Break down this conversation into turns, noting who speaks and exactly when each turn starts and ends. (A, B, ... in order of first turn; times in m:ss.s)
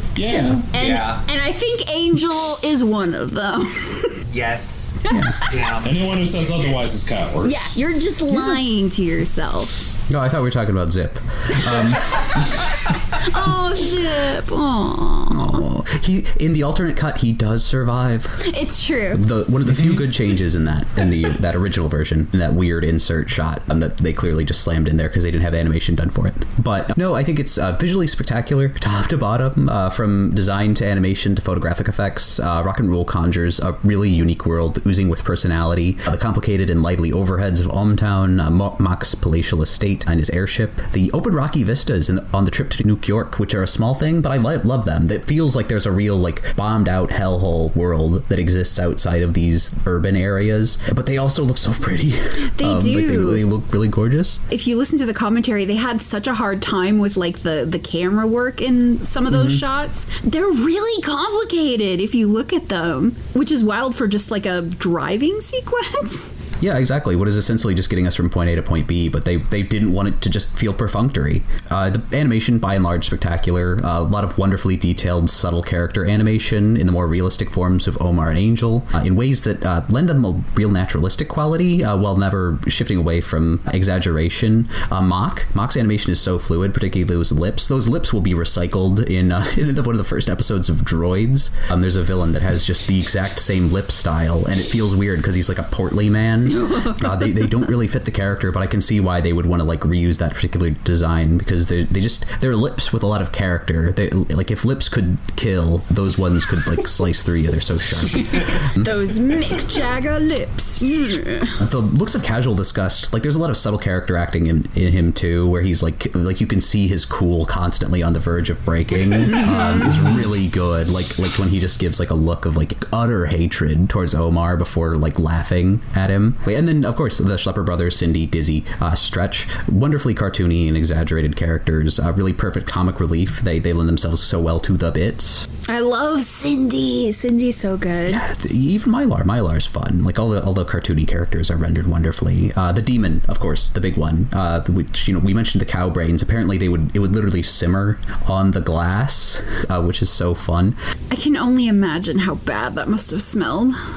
0:00.2-0:00.6 A
0:00.3-0:04.2 B
0:00.8-0:01.2 C
0:04.3-0:06.1 C
0:05.1-0:05.4 D
0:05.8-0:07.8 A
0:07.4-0:09.8 B
0:10.1-0:12.6 D
0:13.1-0:15.6 B
0:15.3-0:18.4 D
0:18.4-0:19.3 B
0:19.1-0:54.4 D
0:19.7-0:20.0 A
0:52.5-0:53.5 B
0:54.5-1:06.3 B
0:59.3-0:59.6 D
1:06.6-1:48.9 D
1:36.5-1:37.0 B
1:48.8-1:51.6 B
1:51.6-2:15.5 D
1:59.3-1:59.9 B
2:15.7-2:18.2 B
2:18.1-2:30.8 D
2:31.1-2:33.8 B